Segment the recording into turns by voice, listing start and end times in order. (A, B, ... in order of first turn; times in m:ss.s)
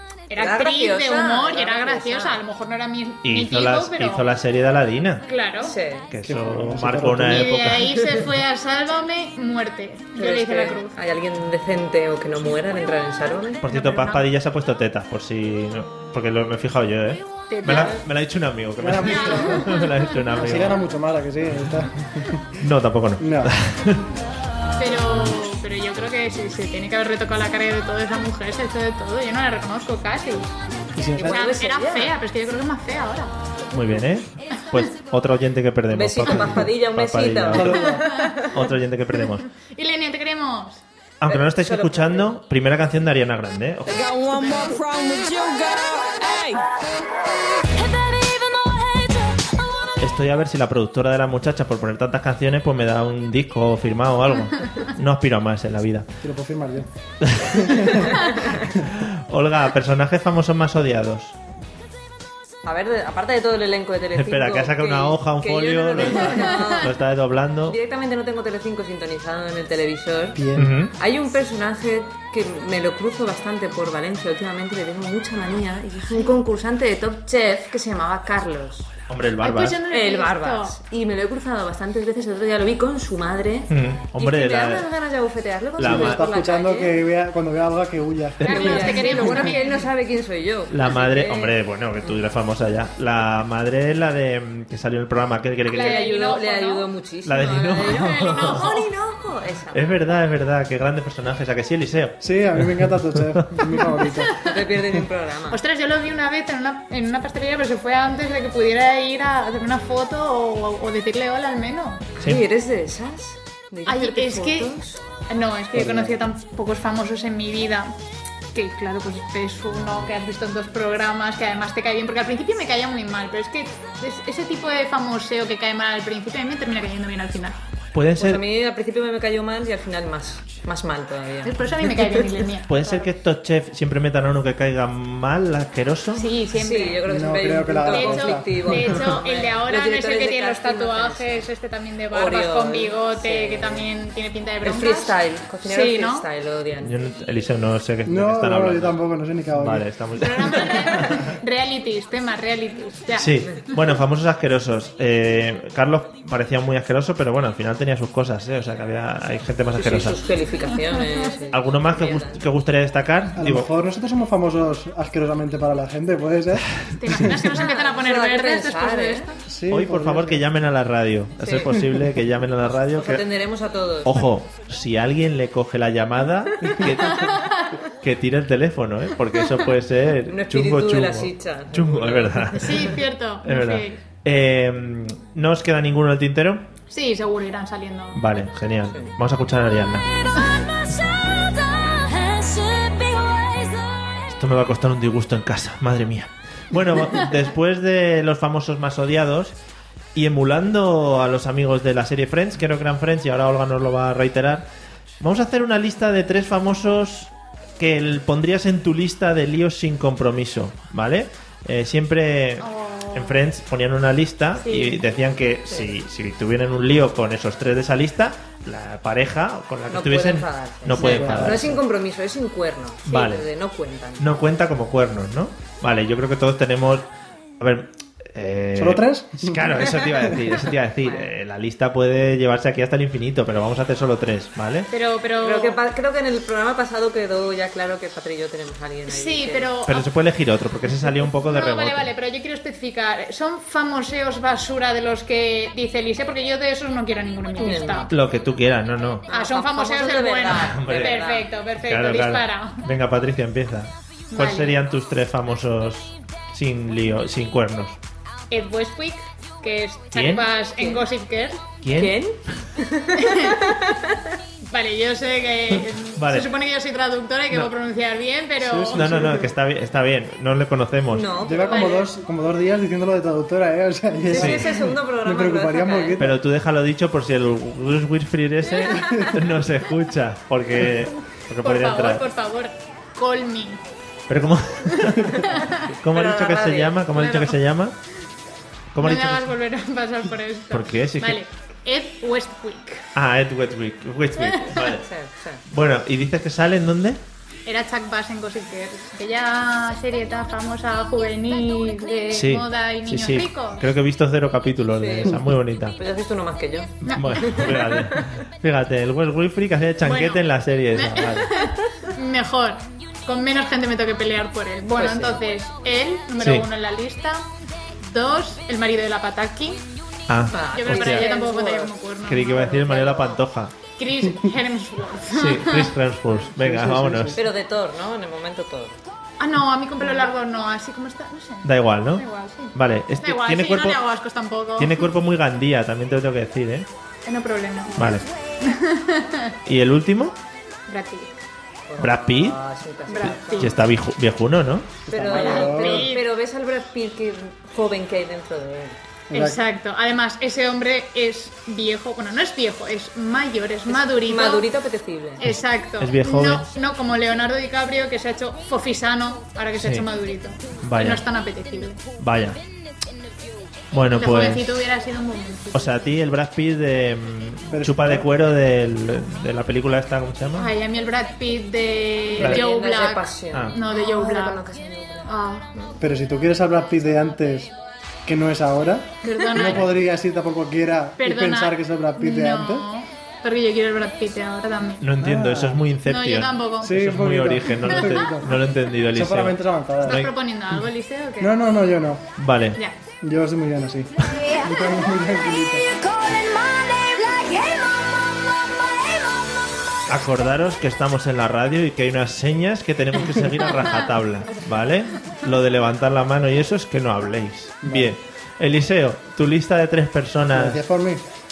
0:00.3-0:04.3 A
0:00.4-0:02.4 B
0:03.2-0:05.2 C
0:05.2-0:05.8 A
0:05.6-0:06.1 B
0:06.1-0:08.3 C
0:06.2-0:07.7 D
0:07.2-0:11.0 A
0:10.2-0:13.6 B
0:13.6-0:20.8 C
0:13.6-0:14.3 A
0:17.5-0:18.0 A
0:18.8-0:19.7 D
0:19.0-0:19.8 A
0:20.3-0:22.6 D
0:22.6-0:24.0 C
0:23.2-0:23.5 D
0:24.8-0:30.5 A
0:31.0-0:31.5 D
0:31.2-0:32.1 B
0:31.3-0:33.3 A
0:33.7-0:37.9 C
0:35.9-0:38.6 B
0:37.5-0:38.1 D
0:38.5-0:39.5 C
0:39.5-0:40.8 A
0:41.2-0:44.1 C
0:41.2-0:42.3 B
0:43.9-0:46.6 E
0:44.4-0:44.7 A
0:50.0-0:56.1 C
0:56.2-0:56.9 D
0:57.2-1:01.3 C
0:57.4-0:58.0 D
1:02.6-1:07.0 B
1:04.1-1:07.8 C
1:06.4-1:06.7 A
1:07.7-1:10.4 B
1:10.3-1:10.8 D
1:10.6-1:10.9 C
1:11.0-1:18.9 B
1:16.1-1:16.4 A
1:19.1-1:19.8 C
1:19.4-1:20.8 A
1:19.9-1:27.0 B
1:23.7-1:24.8 C
1:25.8-1:26.2 C
1:25.8-1:29.2 D
1:28.4-1:29.5 C
1:28.4-1:29.9 A
1:28.4-1:32.2 B
1:30.7-1:36.3 C
1:35.7-1:36.8 A
1:35.7-1:40.0 B
1:37.2-1:38.8 C
1:37.8-1:38.8 A
1:39.7-1:43.8 C
1:42.2-1:44.4 D
1:44.4-1:45.6 B
1:45.5-1:52.1 A
1:52.2-1:55.0 B
1:53.8-1:57.9 A
1:55.7-1:56.1 D
1:58.5-2:07.6 A
2:07.9-2:08.4 C
2:08.2-2:12.4 B
2:11.4-2:13.1 A
2:12.7-2:16.3 C
2:16.1-2:17.0 A
2:16.5-2:21.4 B
2:17.0-2:19.1 D
2:17.8-2:26.2 A
2:22.1-2:23.9 B
2:24.6-2:26.9 B
2:26.8-2:31.3 C
2:28.0-2:29.9 D
2:30.2-2:33.5 A
2:33.2-2:40.2 C
2:39.7-2:42.4 B
2:41.5-2:43.7 C
2:43.4-2:47.2 D
2:47.0-2:49.3 A
2:47.5-2:49.3 B
2:49.4-2:50.4 D
2:49.7-2:53.2 C
2:51.4-2:52.0 B
2:52.7-2:54.3 B
2:54.0-3:06.6 C
2:57.1-2:57.8 A
3:00.3-3:02.8 B
3:02.6-3:04.0 A
3:06.9-3:08.2 A
3:08.1-3:10.0 C
3:14.3-3:19.5 C
3:20.1-3:24.7 C
3:25.2-3:41.8 C
3:32.6-3:33.4 A
3:34.6-3:35.0 A
3:39.9-3:44.3 B
3:41.0-3:41.8 D
3:43.0-3:43.4 C
3:44.2-3:47.1 C
3:47.6-3:54.9 C
3:48.7-3:50.4 D
3:51.0-3:51.3 B
3:54.9-3:55.8 A
3:55.4-3:59.7 B
3:59.1-4:00.1 A
3:59.8-4:02.1 C
4:01.2-4:08.1 A
4:07.6-4:08.1 B
4:08.1-4:09.3 C
4:09.3-4:11.5 B
4:09.3-4:12.8 A
4:10.6-4:11.2 C
4:11.8-4:18.0 C
4:14.3-4:14.8 A
4:18.5-4:21.6 A
4:20.1-4:20.4 C
4:20.8-4:21.0 B
4:21.8-4:22.2 C
4:21.9-4:24.3 B
4:23.1-4:23.7 A
4:24.7-4:29.3 A
4:26.2-4:26.5 C
4:28.6-4:29.6 D
4:28.9-4:31.3 C
4:31.1-4:32.1 B
4:31.4-4:36.4 D
4:34.3-4:36.2 B
4:34.3-4:34.7 C
4:36.2-4:42.2 C
4:39.0-4:39.3 D
4:41.6-4:43.8 A
4:44.3-4:47.9 C
4:44.9-4:45.9 A
4:46.1-4:47.0 B
4:47.1-4:47.6 A
4:48.9-4:49.5 C
4:49.0-4:53.1 A
4:50.7-4:51.4 C
4:53.1-4:55.0 C
4:54.4-4:54.8 A
4:55.0-4:55.6 B
4:55.7-4:57.2 C
4:57.6-5:03.8 A
5:02.3-5:06.0 C
5:04.9-5:05.4 B
5:06.0-5:08.3 B
5:07.0-5:11.5 C
5:07.1-5:07.4 A
5:10.0-5:17.4 A
5:15.0-5:15.5 B
5:16.4-5:16.7 C
5:18.0-5:19.8 A
5:20.3-5:21.3 C
5:20.5-5:21.9 B
5:20.6-5:22.9 A
5:22.2-5:23.7 C
5:22.6-5:23.4 B
5:24.0-5:25.9 A
5:25.3-5:27.4 C
5:26.5-5:27.4 D
5:27.4-5:29.0 B
5:29.4-5:35.1 A
5:31.6-5:34.0 C
5:34.8-5:36.9 C
5:37.3-5:39.6 A
5:38.0-5:38.2 C
5:39.6-5:40.3 C
5:40.9-5:41.3 A
5:41.9-5:43.8 B
5:42.0-5:42.6 C
5:43.1-5:43.7 A
5:43.6-5:45.0 C
5:45.1-5:46.1 D
5:45.1-5:49.0 B
5:45.4-5:46.2 A
5:49.3-5:49.6 D
5:49.3-5:54.7 A
5:53.9-5:55.4 B
5:55.4-6:02.0 A
5:56.0-5:56.7 C
5:59.8-6:00.0 C
6:00.8-6:01.2 C
6:02.2-6:02.6 C
6:03.9-6:04.9 C
6:04.2-6:06.1 A
6:05.7-6:10.7 C
6:07.7-6:08.3 D
6:10.6-6:14.6 A
6:12.3-6:15.9 B
6:12.4-6:12.6 C
6:13.5-6:13.8 C
6:15.2-6:15.7 A
6:16.0-6:17.7 D
6:18.2-6:22.8 D
6:19.2-6:19.9 A
6:21.2-6:25.1 A
6:25.0-6:30.3 C
6:25.2-6:25.8 D
6:26.0-6:27.0 A
6:26.8-6:30.3 D
6:27.9-6:28.3 A
6:30.0-6:31.6 A
6:31.4-6:32.2 D
6:32.4-6:32.8 C
6:33.2-6:36.0 D
6:34.3-6:34.6 C
6:36.2-6:37.7 E
6:40.1-6:50.8 C
6:47.8-6:48.2 D
6:50.5-6:51.2 D